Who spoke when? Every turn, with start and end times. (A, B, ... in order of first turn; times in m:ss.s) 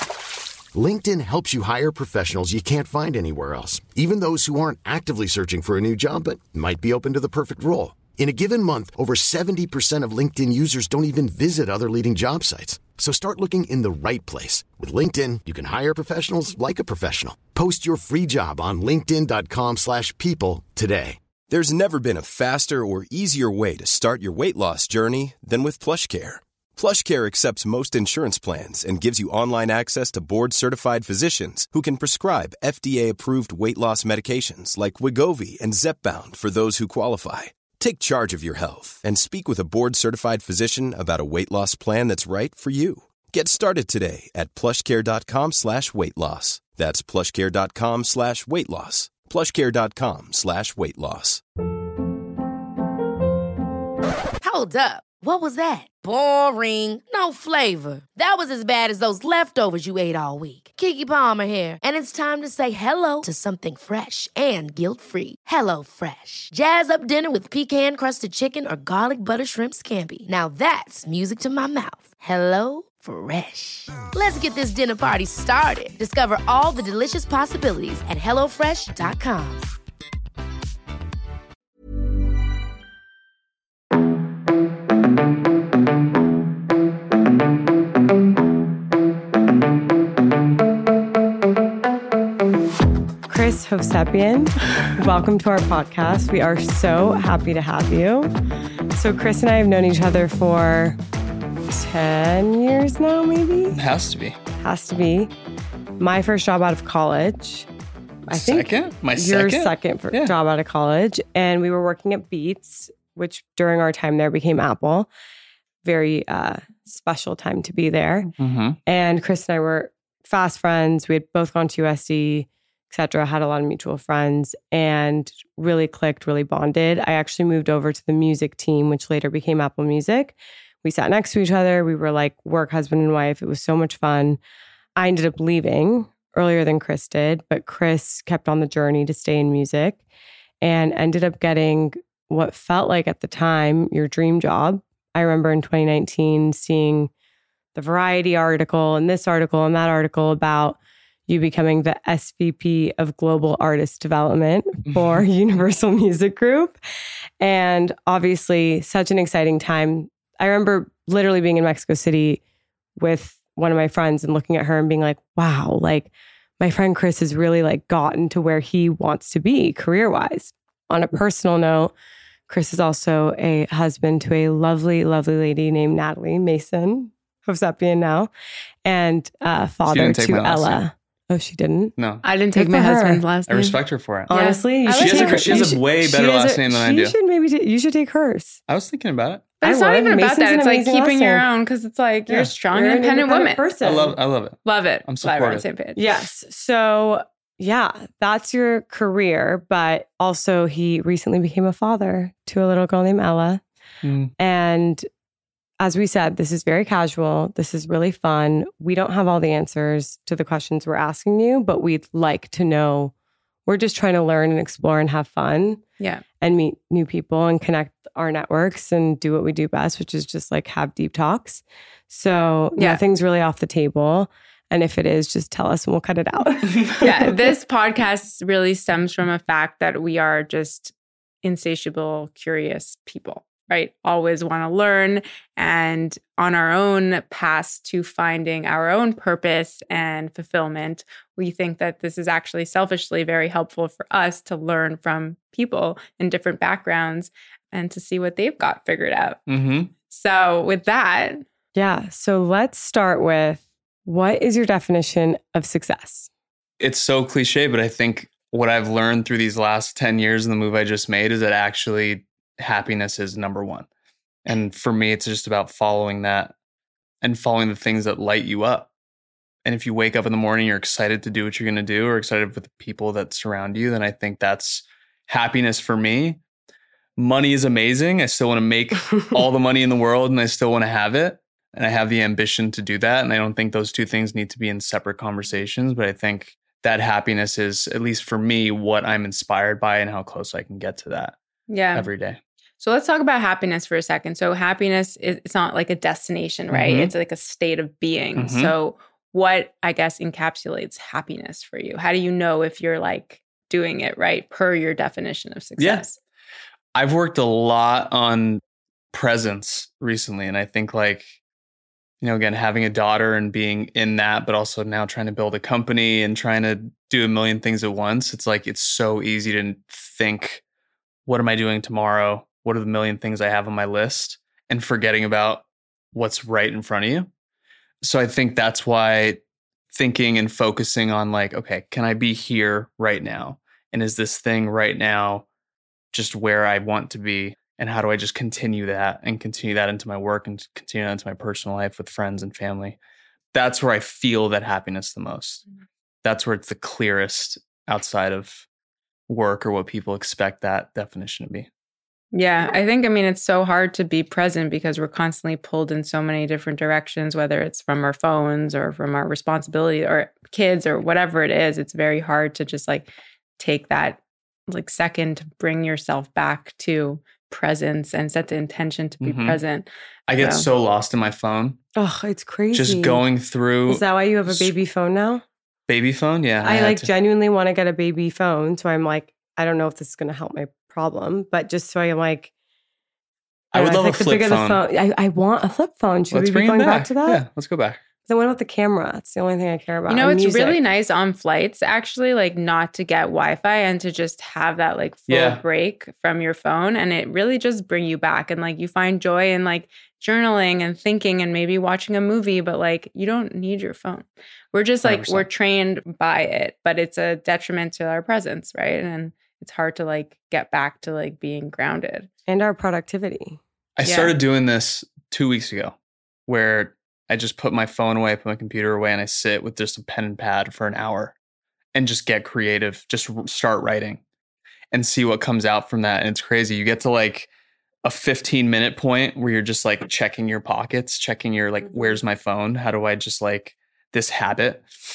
0:00.7-0:21.2 A
0:21.5-0:51.4 B
0:54.4-1:19.6 C
1:33.3-1:38.3 D
1:38.9-1:41.0 D
1:41.7-1:43.8 D
1:43.7-1:44.4 E
1:44.6-1:45.3 D
1:46.0-1:47.7 D
1:48.3-1:55.1 D
1:48.3-1:50.3 E
1:55.8-1:58.3 D
1:58.4-1:58.8 E
1:58.8-2:14.4 D
2:15.0-2:20.0 D
2:20.6-2:27.1 D
2:27.7-2:36.8 D
2:34.9-2:35.2 E
2:37.4-2:42.4 D
2:43.0-2:51.9 D
2:52.5-2:58.3 D
2:58.8-3:01.9 D
2:59.9-3:00.8 E
3:02.0-3:02.2 E
3:02.2-3:03.8 F
3:02.5-3:03.2 D
3:03.5-3:04.3 E
3:04.3-3:08.6 D
3:04.3-3:05.7 F
3:04.9-3:07.2 E
3:08.7-3:09.5 E
3:09.6-3:13.6 F
3:09.6-3:11.4 D
3:12.3-3:14.2 D
3:13.8-3:15.6 E
3:14.6-3:16.0 F
3:16.0-3:23.6 D
3:24.0-3:24.3 E
3:24.4-3:25.0 D
3:25.8-3:33.1 D
3:33.6-3:35.8 D
3:36.4-3:47.3 D
3:42.8-3:43.0 F
3:46.7-3:47.0 E
3:47.0-4:09.4 F
4:09.5-4:09.9 E
4:10.1-4:11.4 F
4:11.7-4:16.3 D
4:16.8-4:23.8 E
4:24.4-4:26.5 E
4:27.2-4:28.9 E
4:29.6-4:36.4 E
4:37.2-4:51.4 E
4:51.7-4:52.1 F
4:51.9-4:52.4 E
4:52.8-5:06.2 F
4:56.7-4:57.1 E
4:58.4-4:58.7 E
5:05.8-5:06.0 E
5:06.9-5:08.6 E
5:09.1-5:11.3 E
5:12.2-5:20.6 E
5:21.2-5:27.3 E
5:28.0-5:29.4 E
5:29.9-5:35.4 E
5:36.1-5:43.0 E
5:43.5-5:45.6 E
5:46.2-5:48.6 E
5:49.3-5:51.7 E
5:52.3-6:10.7 F
6:09.2-6:09.6 E
6:10.3-6:11.8 E
6:12.0-6:13.2 D
6:12.7-6:14.7 E
6:13.9-6:15.4 D
6:15.9-6:17.1 E
6:16.6-6:22.5 D
6:23.7-6:24.8 E
6:23.7-6:27.4 D
6:26.3-6:28.0 E
6:28.2-6:30.8 D
6:30.1-6:52.3 F
6:35.3-6:35.6 E
6:45.0-6:45.4 E
6:52.5-6:53.6 D
6:54.0-7:01.3 E
6:54.0-6:54.4 F
7:01.9-7:04.2 E
7:04.9-7:07.5 E
7:08.0-7:14.8 E